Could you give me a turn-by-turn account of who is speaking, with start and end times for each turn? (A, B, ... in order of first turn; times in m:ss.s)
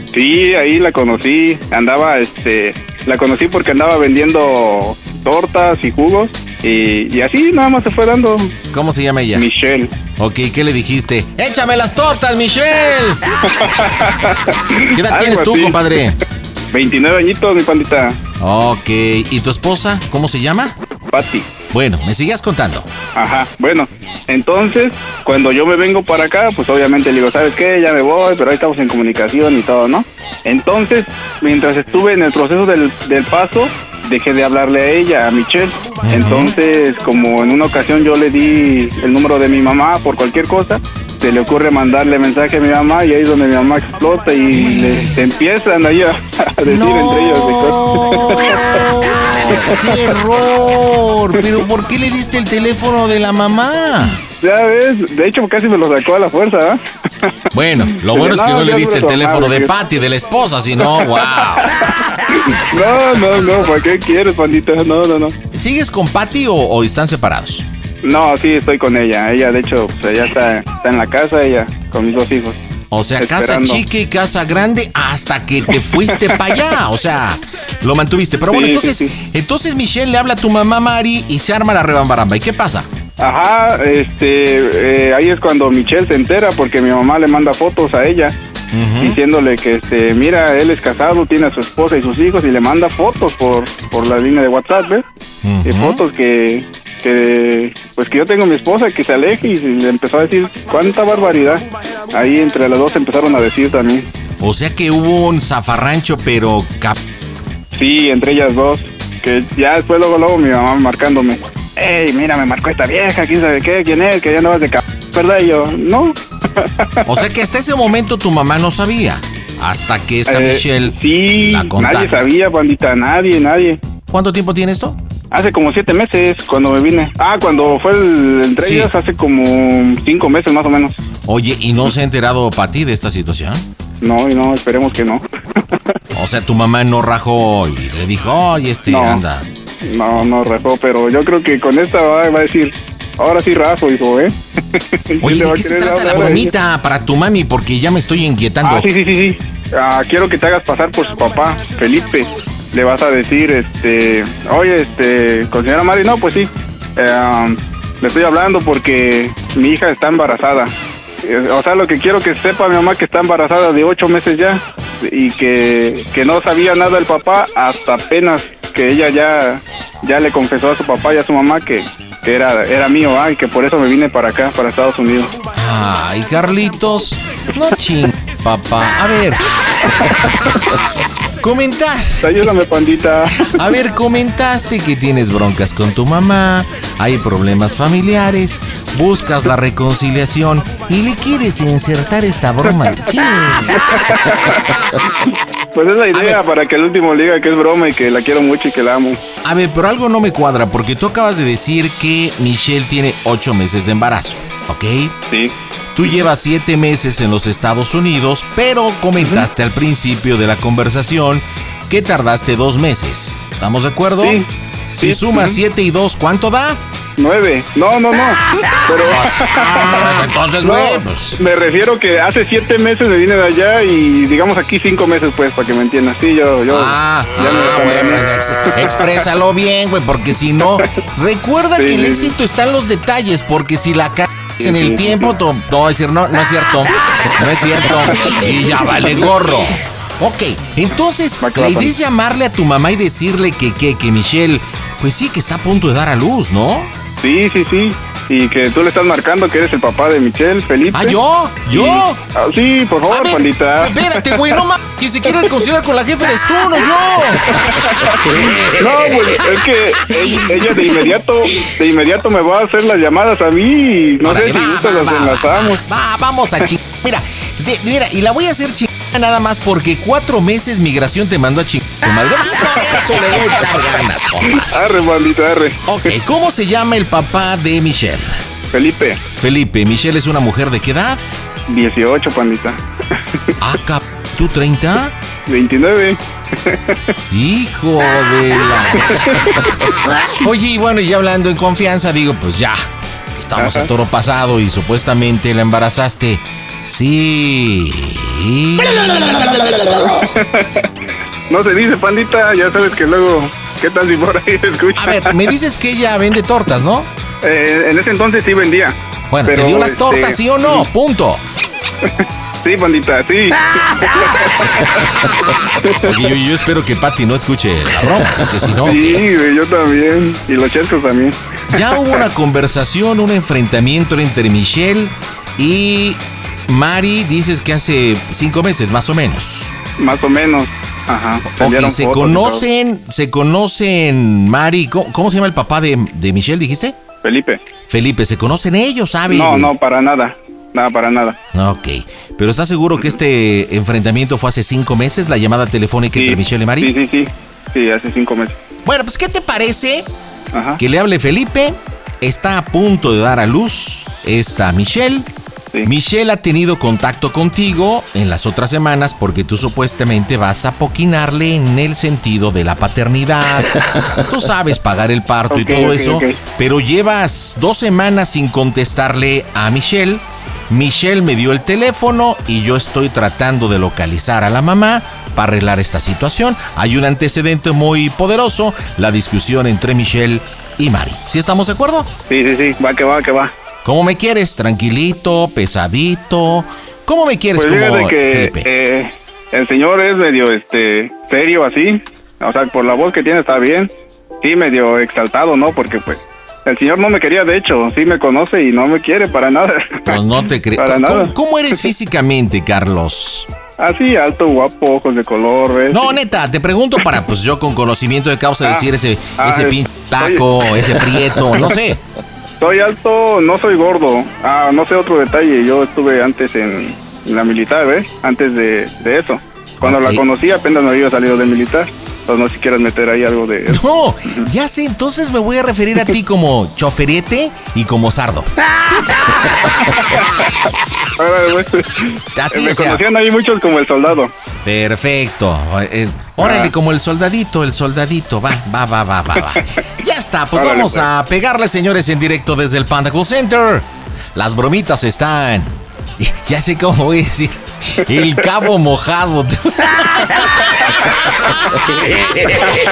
0:00.1-0:08.6 A
0:08.7-0:09.5 B
0:09.3-0:10.0 A
0:10.2-0:13.2 B
0:13.5-0:15.8 A
0:14.9-0:16.2 B
0:16.7-0:18.2 A
0:18.4-0:20.8 B
0:21.1-0:21.6 A
0:21.7-0:22.9 B
0:23.1-0:48.8 A
0:36.0-0:36.5 B
0:44.5-0:45.1 B
0:46.6-0:54.2 B
0:49.5-0:49.9 A
0:54.4-0:56.8 A
0:57.5-1:01.7 B
0:57.9-0:59.7 A
1:00.8-1:01.6 A
1:02.5-1:05.4 A
1:05.5-1:07.6 B
1:08.0-1:12.6 A
1:12.9-1:22.8 B
1:13.2-1:13.8 A
1:16.0-1:16.6 A
1:18.5-1:19.1 A
1:23.2-1:28.3 A
1:28.7-1:29.2 B
1:29.0-1:35.0 A
1:35.4-1:36.0 B
1:35.6-1:44.1 A
1:44.4-1:47.0 B
1:47.7-1:57.2 A
1:57.1-2:02.2 B
2:00.3-2:03.8 A
2:04.1-2:05.0 B
2:05.3-2:11.0 A
2:08.6-2:08.9 B
2:11.2-2:13.6 B
2:14.0-2:15.2 A
2:16.1-2:19.4 B
2:18.9-2:19.2 A
2:19.8-2:26.5 A
2:25.2-2:28.9 B
2:28.6-2:55.4 A
2:55.5-2:59.5 B
3:01.4-3:02.3 B
3:02.2-3:03.5 A
3:03.5-3:13.8 B
3:12.7-3:13.0 A
3:13.7-3:14.6 A
3:15.7-3:19.2 A
3:16.1-3:16.4 B
3:19.4-3:25.1 B
3:25.3-3:26.2 A
3:25.9-3:34.4 B
3:29.2-3:29.5 A
3:34.2-3:34.4 A
3:34.9-3:36.8 B
3:35.0-3:35.6 A
3:37.2-3:48.2 A
3:38.9-3:41.4 B
3:46.7-4:06.9 B
3:51.8-3:52.3 A
3:54.6-3:55.3 A
3:58.1-3:58.4 A
4:01.4-4:01.9 A
4:07.2-4:14.6 A
4:10.9-4:12.2 B
4:13.1-4:17.6 B
4:15.3-4:15.5 A
4:17.5-4:25.8 A
4:24.2-4:34.8 B
4:34.6-4:36.1 A
4:35.8-4:38.4 B
4:38.7-4:39.2 A
4:39.4-4:41.2 B
4:41.7-4:42.8 A
4:43.6-4:45.1 B
4:45.5-4:47.0 A
4:47.3-4:49.4 B
4:49.0-4:49.3 A
4:50.4-4:59.7 B
4:53.6-4:53.9 A
5:00.4-5:00.7 A
5:01.5-5:05.4 A
5:05.0-5:07.1 B
5:07.4-5:10.9 A
5:09.3-5:11.4 B
5:12.6-5:14.9 A
5:15.8-5:16.2 A
5:16.0-5:19.2 B
5:18.8-5:21.4 A
5:21.7-5:29.7 B
5:30.0-5:32.6 A
5:31.5-5:36.9 B
5:37.2-5:37.6 A
5:37.9-5:39.7 B
5:39.3-5:41.4 A
5:41.5-5:46.9 B
5:46.2-5:48.6 A
5:48.8-5:50.1 B
5:50.5-5:50.8 A
5:50.8-5:55.3 B
5:55.8-6:22.1 B
6:05.5-6:06.4 A
6:22.3-6:23.5 A
6:23.8-6:28.7 B
6:27.5-6:40.2 A
6:40.1-6:43.5 B
6:40.8-6:41.8 A
6:43.8-6:46.2 A
6:45.9-6:52.0 B
6:49.4-6:50.4 A
6:52.6-7:04.4 A
6:59.8-7:00.2 B
7:03.7-7:08.5 B
7:11.2-7:14.3 A
7:12.3-7:13.0 B
7:14.6-7:30.5 B
7:16.4-7:16.7 A
7:20.5-7:21.1 A